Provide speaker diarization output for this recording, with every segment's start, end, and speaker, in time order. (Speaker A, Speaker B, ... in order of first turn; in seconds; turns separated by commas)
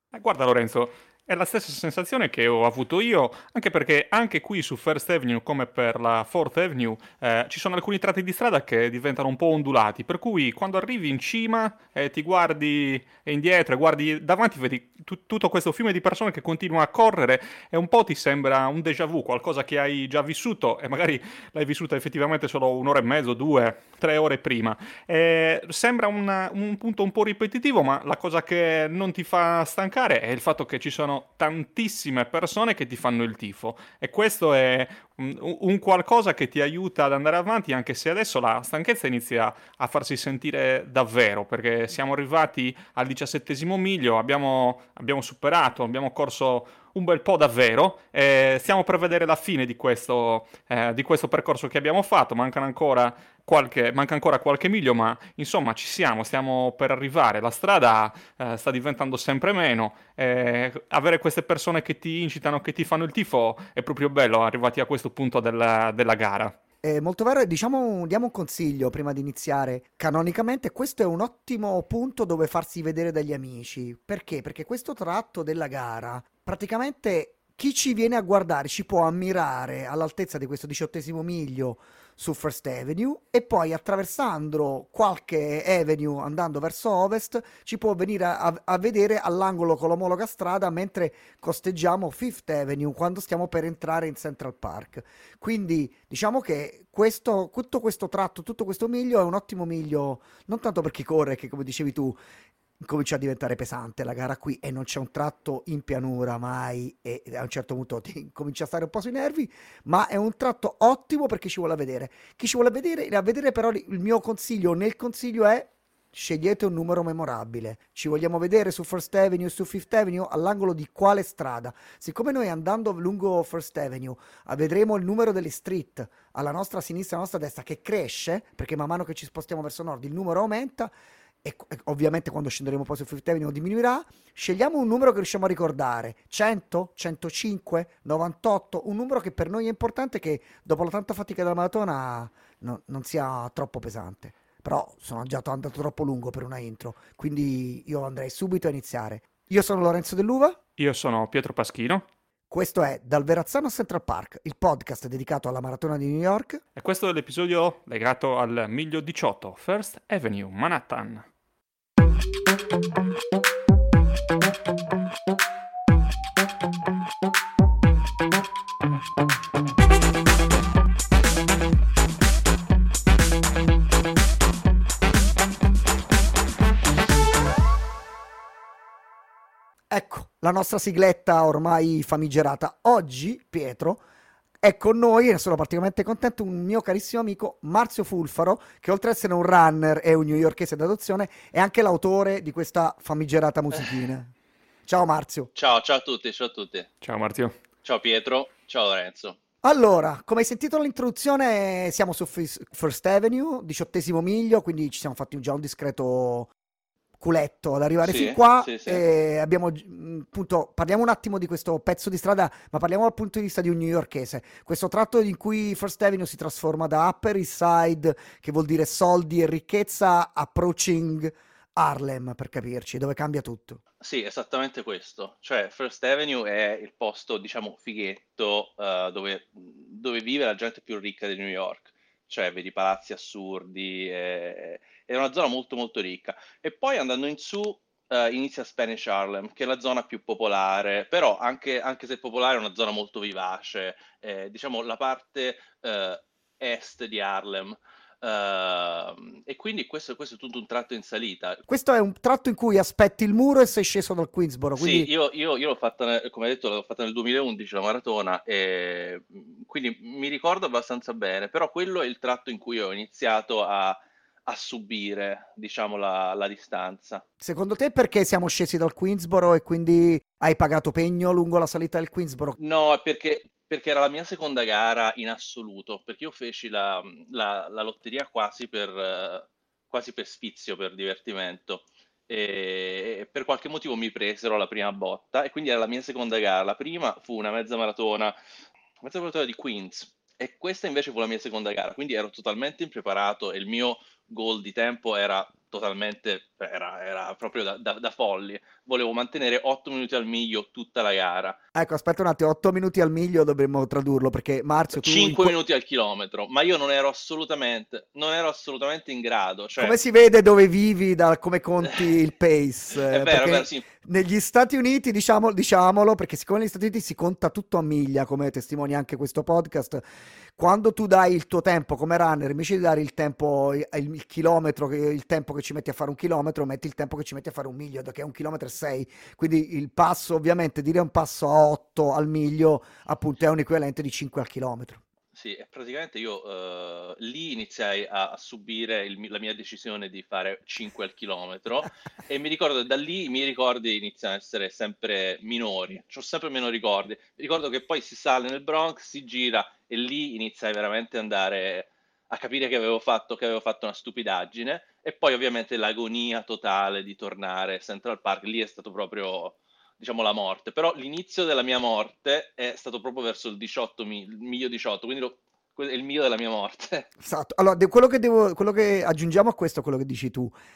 Speaker A: 0.1-66.6, Speaker B: 66.8-102.2, Speaker B: 102.8-130.9, Speaker B: 131.4-150.6, Speaker A: 150.8-152.1, Speaker B: 152.5-156.6, Speaker A: 156.8-161.3, Speaker B: 179.9-184.0, Speaker B: 184.6-194.3, Speaker B: 194.9-195.5, Speaker C: 195.6-196.9, Speaker A: 197.0-197.6, Speaker C: 197.8-199.4, Speaker B: 199.6-206.5, Speaker B: 207.2-223.8, Speaker C: 208.0-209.0, Speaker C: 224.0-251.6, Speaker B: 251.7-255.1, Speaker C: 254.8-267.2, Speaker B: 267.4-272.6, Speaker C: 272.6-288.4, Speaker C: 289.0-301.6, Speaker B: 301.8-305.6, Speaker C: 304.9-310.0, Speaker B: 309.8-320.0, Speaker C: 312.9-313.9, Speaker B: 320.6-335.0, Speaker C: 335.4-367.1, Speaker B: 367.2-370.6